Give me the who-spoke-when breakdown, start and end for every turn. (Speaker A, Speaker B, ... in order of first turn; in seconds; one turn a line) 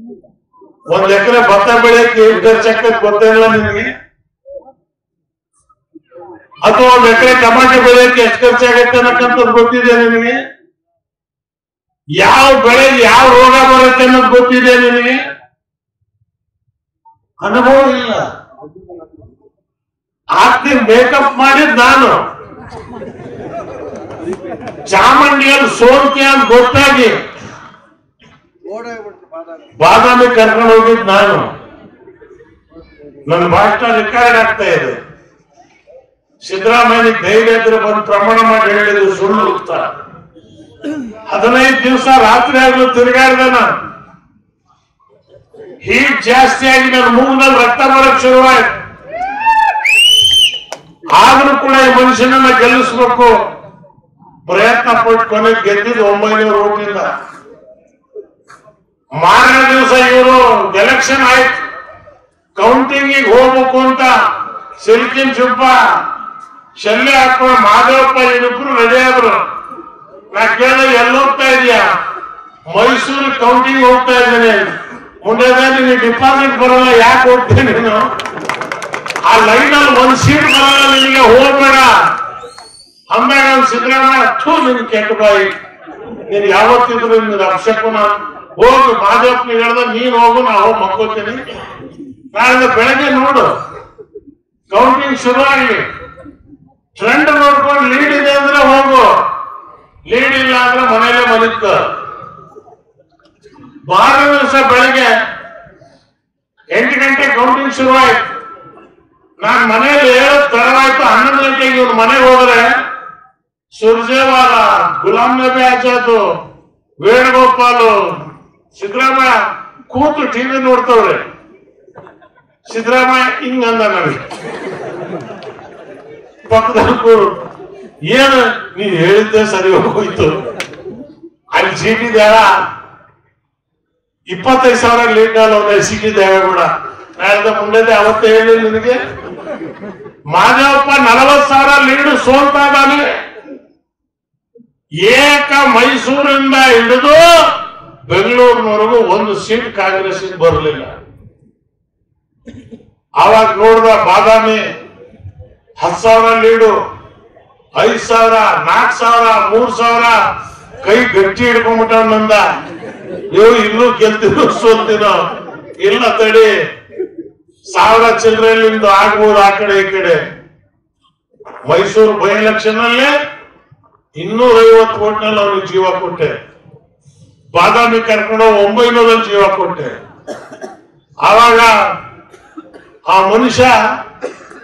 Speaker A: 0.9-3.9
Speaker A: 6.6-10.4
Speaker A: 12.2-15.2
Speaker A: 17.4-18.2
Speaker A: 20.4-22.2
Speaker A: 24.9-27.2
Speaker A: 29.8-31.5
Speaker A: 33.3-35.0
Speaker A: 36.4-39.9
Speaker A: 41.3-43.7
Speaker A: 45.8-48.8
Speaker A: 51.1-53.3
Speaker A: 54.5-57.1
Speaker A: 59.2-61.6
Speaker A: 62.5-64.1
Speaker A: 64.8-66.0
Speaker A: 66.8-69.4
Speaker A: 70.3-71.9
Speaker A: 72.7-78.1
Speaker A: 79.2-82.0
Speaker A: 83.1-85.5
Speaker A: 86.3-91.4
Speaker A: 92.3-93.5
Speaker A: 94.7-95.8
Speaker A: 96.9-99.1
Speaker A: 100.1-101.8
Speaker A: 103.9-105.1
Speaker A: 106.7-108.2
Speaker A: 109.4-112.7
Speaker A: 113.7-116.2
Speaker A: 117.0-119.3
Speaker A: 119.9-121.2
Speaker A: 122.7-124.3
Speaker A: 126.5-127.3
Speaker A: 128.0-130.4
Speaker A: 131.5-132.6
Speaker A: 134.3-139.0
Speaker A: 140.3-143.1
Speaker A: 145.0-147.3
Speaker A: 148.1-150.9
Speaker A: 153.2-154.7
Speaker A: 155.8-156.8
Speaker A: 157.8-160.2
Speaker A: 160.8-162.4
Speaker A: 163.3-165.2
Speaker A: 165.8-166.5
Speaker A: 167.7-170.2
Speaker A: 171.7-173.1
Speaker A: 174.2-176.3
Speaker A: 177.5-179.9
Speaker A: 181.2-181.7
Speaker A: 183.1-183.8